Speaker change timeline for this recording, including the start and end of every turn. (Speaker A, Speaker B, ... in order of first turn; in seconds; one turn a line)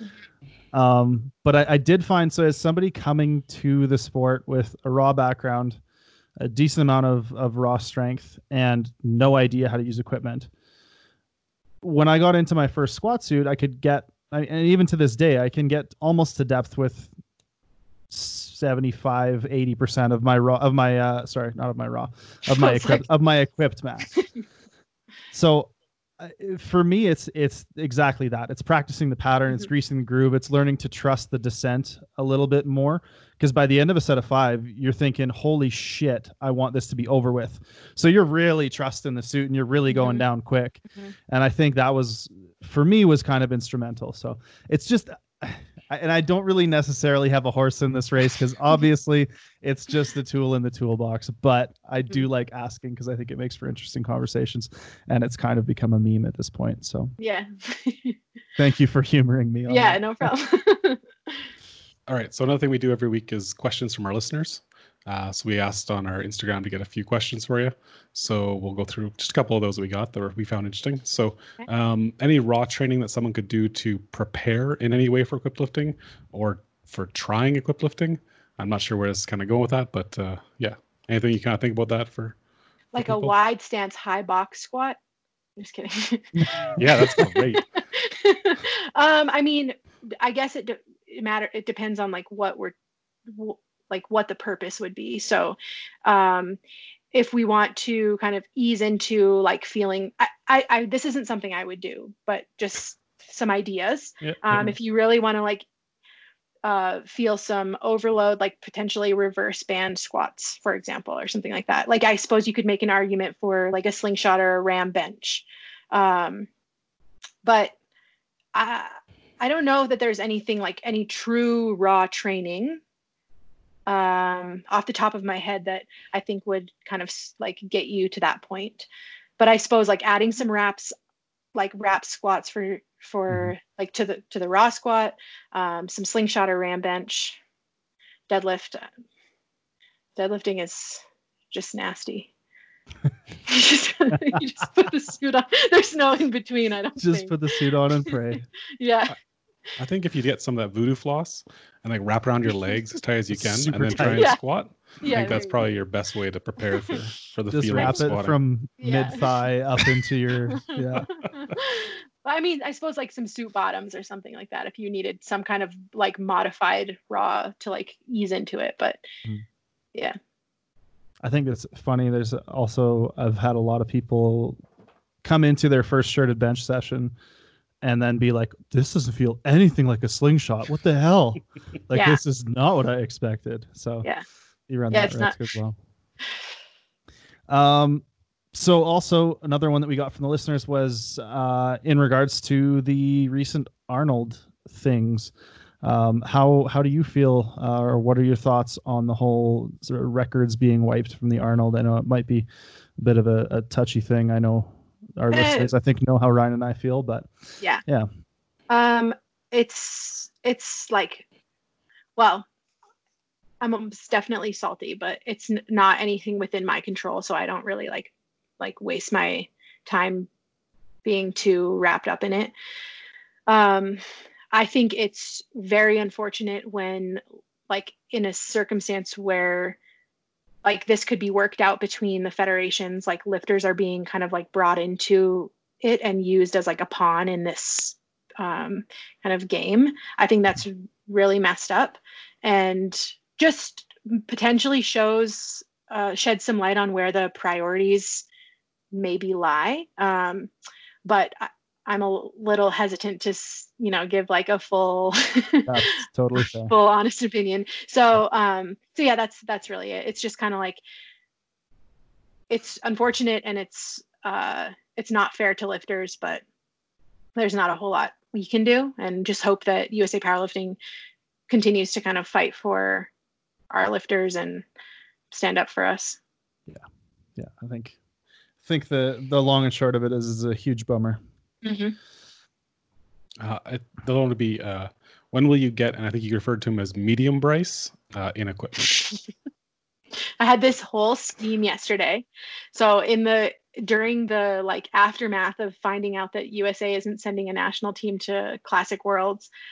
Speaker A: 0.7-5.8
Speaker A: 6.4-10.5
Speaker A: 11.8-17.1
Speaker A: 18.1-24.2
Speaker B: 22.5-23.1
Speaker A: 25.3-57.1
Speaker B: 39.9-40.3
Speaker B: 57.2-58.2
Speaker A: 58.6-60.1
Speaker B: 59.7-61.0
Speaker C: 62.1-82.3
Speaker B: 82.9-85.0
Speaker C: 83.0-83.3
Speaker B: 85.6-86.8
Speaker A: 86.4-87.3
Speaker C: 86.8-87.6
Speaker B: 87.6-92.7
Speaker B: 93.3-96.6
Speaker B: 97.1-105.7
Speaker B: 106.6-116.5
Speaker B: 117.4-117.7
Speaker B: 118.5-122.8
Speaker B: 123.9-128.9
Speaker B: 129.4-130.9
Speaker B: 131.6-137.4
Speaker B: 138.3-138.8
Speaker B: 140.2-142.3
Speaker B: 143.5-148.2
Speaker A: 147.0-148.4
Speaker B: 148.8-149.1
Speaker C: 149.8-158.4
Speaker A: 153.3-154.4
Speaker B: 154.1-154.4
Speaker B: 155.0-155.6
Speaker A: 157.5-161.1
Speaker B: 157.8-158.1
Speaker B: 158.8-159.3
Speaker B: 160.5-169.1
Speaker A: 171.2-174.6
Speaker A: 175.2-177.1
Speaker A: 177.8-184.1
Speaker B: 181.9-182.2
Speaker A: 184.7-185.8
Speaker B: 184.9-185.4
Speaker A: 187.5-202.5
Speaker A: 203.0-207.3
Speaker B: 205.3-205.7
Speaker B: 208.7-211.2
Speaker B: 212.2-212.5
Speaker B: 213.6-220.3
Speaker B: 221.1-222.5
Speaker B: 223.5-224.0
Speaker B: 224.5-229.8
Speaker B: 230.6-248.3
Speaker B: 248.9-250.5
Speaker B: 251.1-255.7
Speaker A: 255.7-256.7
Speaker B: 256.4-260.8
Speaker B: 262.5-266.4
Speaker B: 267.4-270.8
Speaker B: 271.5-273.1
Speaker B: 273.7-274.6
Speaker B: 275.3-276.2
Speaker A: 277.4-278.0
Speaker A: 278.6-281.2
Speaker B: 281.6-282.0
Speaker C: 283.4-289.2
Speaker B: 290.4-299.5